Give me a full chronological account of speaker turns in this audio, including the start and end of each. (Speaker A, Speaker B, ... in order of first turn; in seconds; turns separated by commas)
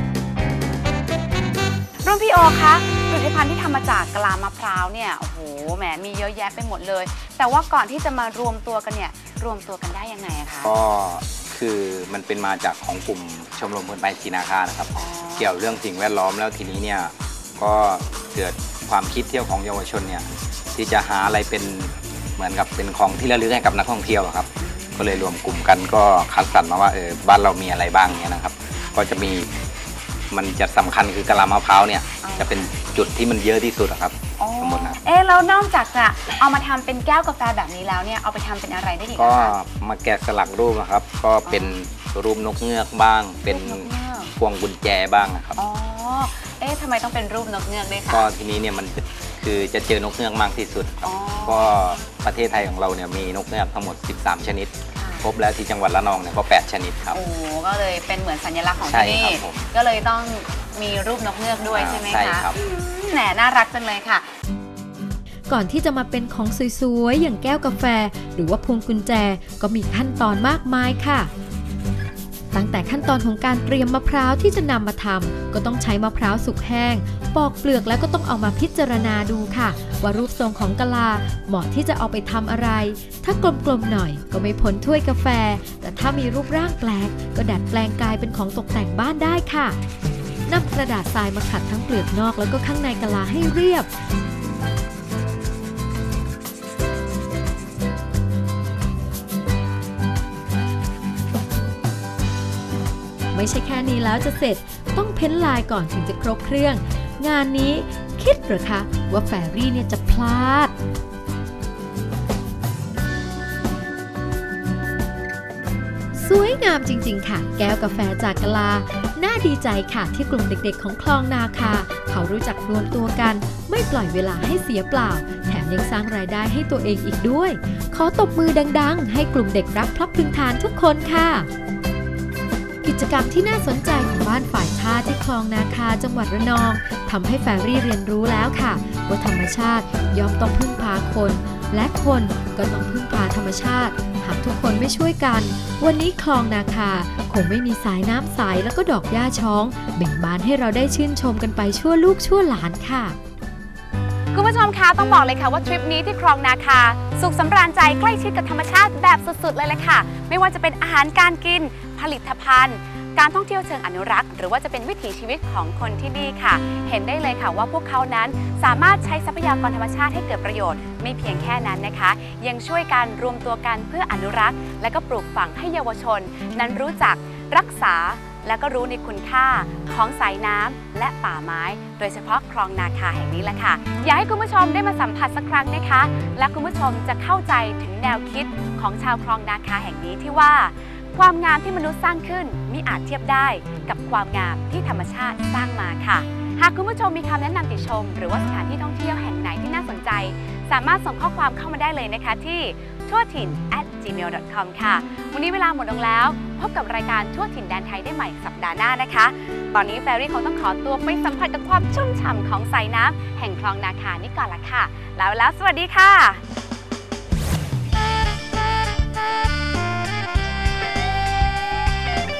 Speaker A: 2.0-10.7, Speaker B: 10.6-29.5, Speaker A: 14.9-15.6, Speaker A: 24.6-25.3, Speaker B: 30.3-35.0, Speaker A: 32.2-32.7, Speaker A: 34.4-39.6, Speaker B: 39.2-45.6, Speaker A: 41.4-41.8, Speaker A: 43.4-44.3, Speaker A: 45.5-48.3, Speaker B: 48.1-57.2, Speaker A: 51.0-51.8, Speaker A: 54.9-55.3, Speaker A: 57.1-64.2, Speaker B: 58.9-59.6, Speaker B: 61.7-62.5, Speaker C: 65.5-71.3, Speaker C: 72.5-89.8, Speaker C: 90.5-93.9, Speaker C: 103.3-110.7, Speaker C: 116.2-131.5, Speaker C: 132.8-153.2, Speaker A: 154.3-216.4